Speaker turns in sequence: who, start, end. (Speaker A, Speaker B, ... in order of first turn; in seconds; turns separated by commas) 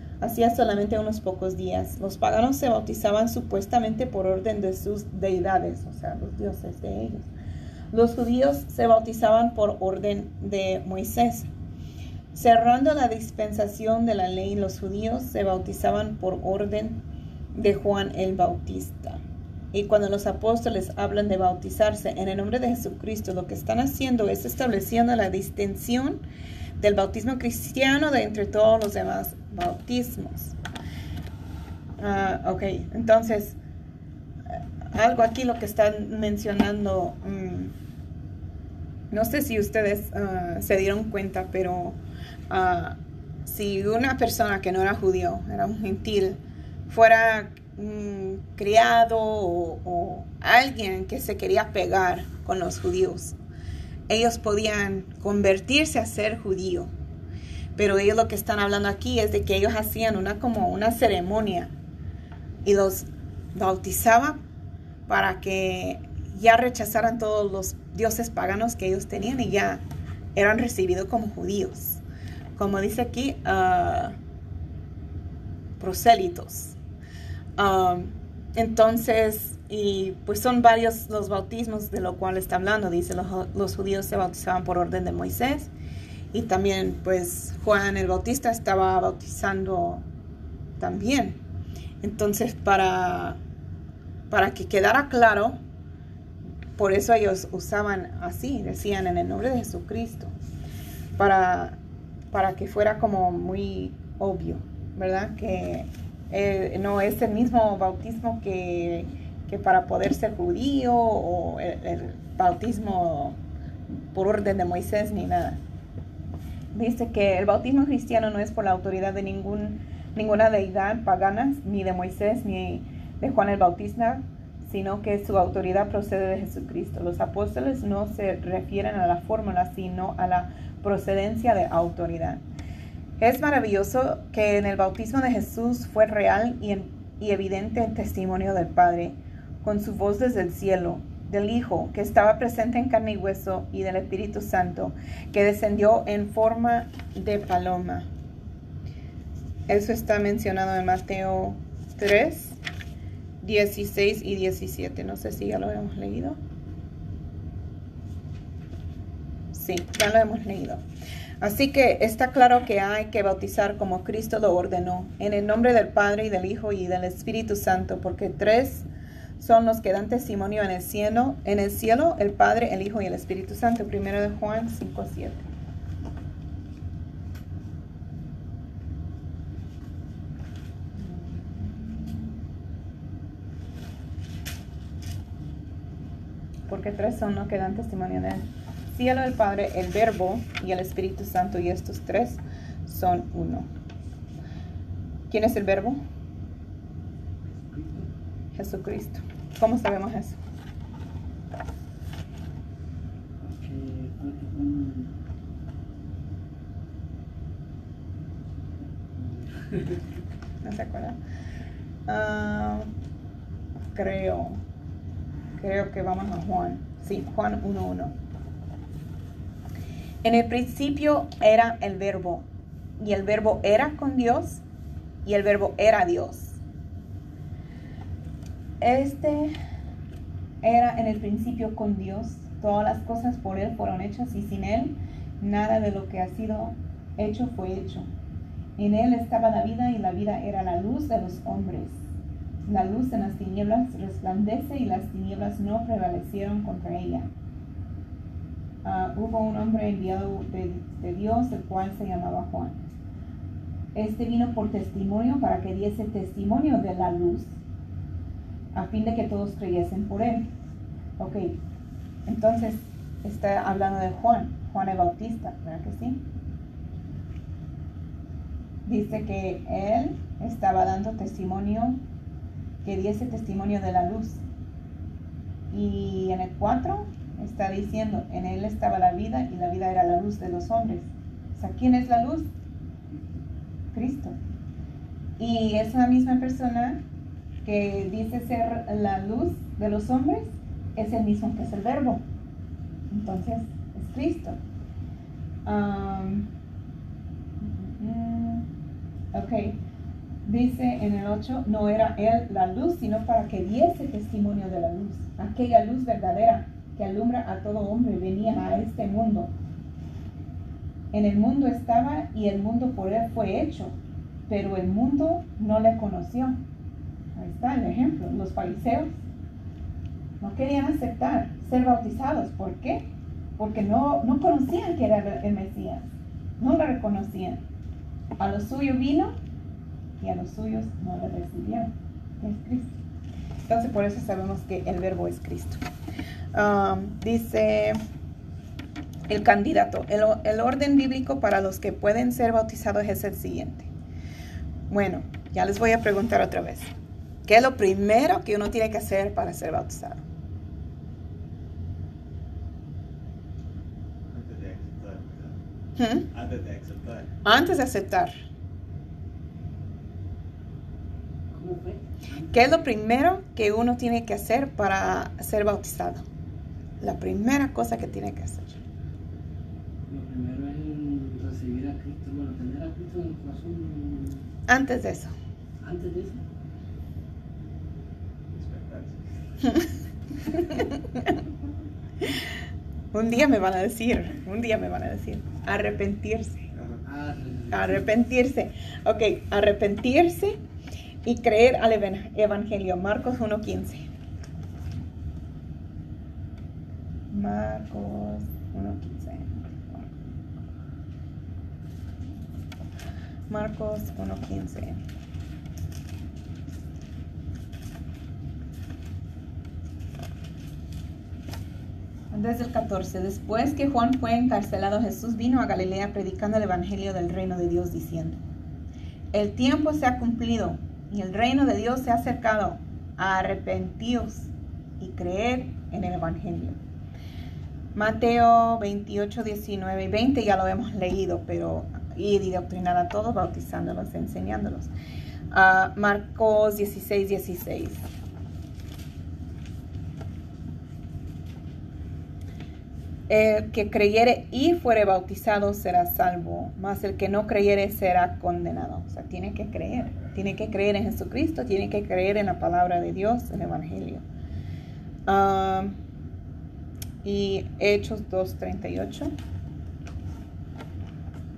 Speaker A: 0.2-7.3, Speaker A: 7.9-11.5, Speaker A: 12.3-17.0, Speaker A: 17.5-19.2, Speaker A: 19.7-26.2, Speaker A: 26.8-30.5, Speaker A: 32.0-33.6, Speaker A: 34.5-37.7, Speaker A: 39.1-42.0, Speaker A: 42.5-53.4, Speaker A: 54.1-56.9, Speaker A: 57.8-61.7, Speaker A: 62.6-64.4, Speaker A: 65.1-69.8, Speaker A: 70.3-72.0, Speaker A: 72.5-74.1, Speaker A: 75.8-76.8, Speaker A: 77.6-85.7, Speaker A: 86.3-90.0, Speaker A: 90.8-91.4, Speaker A: 92.0-93.4, Speaker A: 94.3-95.6, Speaker A: 96.8-100.3, Speaker A: 101.2-101.8, Speaker A: 102.3-113.4, Speaker A: 114.1-115.6, Speaker A: 116.7-132.4, Speaker A: 133.2-148.1, Speaker A: 149.7-152.6, Speaker A: 153.4-156.4, Speaker A: 159.5-160.8, Speaker A: 161.4-168.9, Speaker A: 169.4-175.4, Speaker A: 181.0-182.3, Speaker A: 186.7-193.7, Speaker A: 195.3-196.0, Speaker B: 197.5-198.1, Speaker A: 198.5-200.4, Speaker B: 203.4-205.1, Speaker B: 209.1-210.0, Speaker A: 210.6-211.2, Speaker A: 212.1-212.9, Speaker A: 213.9-214.6, Speaker A: 215.6-218.1, Speaker A: 220.2-222.4, Speaker A: 223.0-224.6, Speaker A: 225.2-226.6, Speaker A: 228.8-229.5, Speaker A: 230.6-238.1, Speaker A: 238.8-242.0, Speaker A: 242.7-247.3, Speaker A: 248.8-252.8, Speaker A: 253.9-257.6, Speaker A: 258.7-260.5, Speaker A: 261.2-261.5, Speaker A: 262.2-266.2, Speaker A: 268.9-272.0, Speaker A: 272.8-274.4, Speaker A: 275.7-282.5, Speaker A: 283.9-284.4, Speaker A: 285.4-287.0, Speaker A: 287.6-292.2, Speaker A: 293.1-294.6, Speaker A: 295.6-296.5, Speaker A: 297.6-298.6, Speaker A: 299.3-299.8, Speaker A: 300.4-309.5, Speaker A: 311.1-313.9, Speaker A: 314.5-316.6, Speaker A: 317.3-319.1, Speaker A: 320.4-326.1, Speaker A: 326.6-327.6, Speaker A: 328.4-329.3, Speaker A: 330.2-332.9, Speaker A: 333.7-335.8, Speaker A: 336.5-338.0, Speaker A: 339.3-343.9, Speaker A: 344.9-346.9, Speaker A: 347.4-350.2, Speaker C: 354.3-355.6, Speaker A: 356.0-356.3, Speaker C: 356.3-357.3, Speaker A: 357.4-358.3, Speaker B: 361.5-362.8, Speaker A: 362.5-366.2, Speaker A: 367.0-368.8, Speaker B: 370.1-374.4, Speaker A: 374.7-375.3, Speaker B: 375.8-376.4, Speaker C: 378.5-379.2, Speaker A: 380.6-381.3, Speaker A: 383.1-386.7, Speaker C: 386.8-387.0, Speaker B: 387.0-388.1, Speaker A: 387.7-390.6, Speaker A: 391.2-394.1, Speaker A: 397.3-400.1, Speaker A: 403.5-405.0, Speaker A: 412.3-418.4, Speaker A: 419.3-426.8, Speaker A: 427.9-434.9, Speaker A: 435.5-438.0, Speaker A: 443.3-454.2, Speaker A: 455.3-455.9, Speaker A: 457.2-459.3